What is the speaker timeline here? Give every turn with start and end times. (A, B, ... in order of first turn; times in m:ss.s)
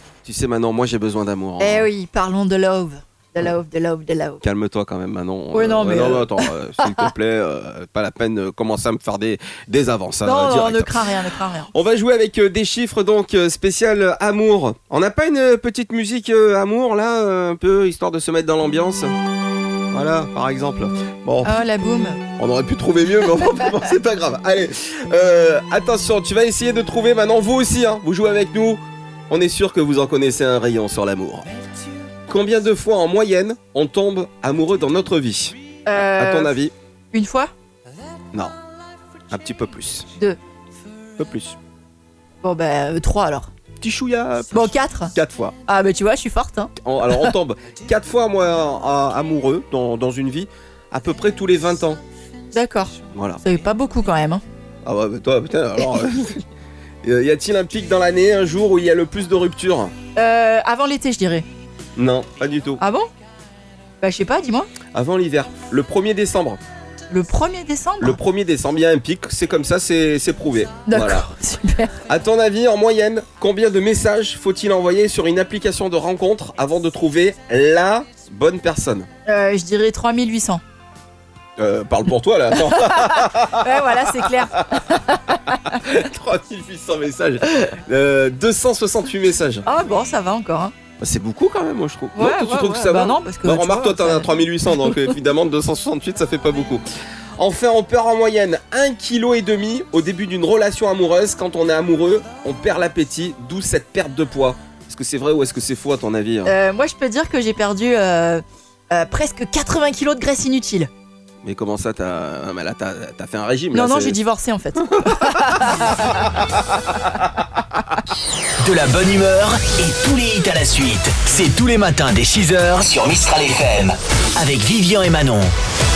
0:00.2-0:01.9 A
0:01.6-0:04.4 B
0:04.4-0:11.0 A
0:05.5-0:07.1 B
0:10.2-0:11.7 B
0:11.7-0:19.1 A
0:19.9-0:21.6 A
0:21.4-0:22.2 B
0:22.4-0:31.4 A
0:32.3-0:36.7 A
0:35.8-0:36.6 B
0:37.1-0:37.5 B
0:39.3-0:40.1 A
0:41.2-0:41.6 A
0:42.4-0:43.5 B
0:43.8-0:45.5 A
0:44.5-0:45.1 B
0:45.7-0:47.3 B
0:46.8-0:52.0 A
0:52.5-0:54.4 B
0:53.0-0:53.4 A
0:54.8-0:56.4 A
0:57.0-0:59.9 A
1:00.2-1:01.5 B
1:02.0-1:02.8 A
1:02.8-1:03.1 B
1:04.0-1:04.7 B
1:04.9-1:06.6 A
1:07.1-1:08.2 B
1:08.0-1:11.3 A
1:10.9-1:12.0 B
1:12.1-1:19.1 A
1:19.2-1:20.6 B
1:21.6-1:24.6 A
1:22.5-1:25.8 B
1:25.6-1:29.6 A
1:29.6-1:30.7 B
1:31.0-1:36.8 A
1:32.1-1:35.1 B
1:37.4-1:46.5 A
1:46.4-1:50.9 B
1:51.4-1:54.2 A
1:53.7-1:56.1 B
1:55.0-1:56.0 A
1:58.6-2:05.5 C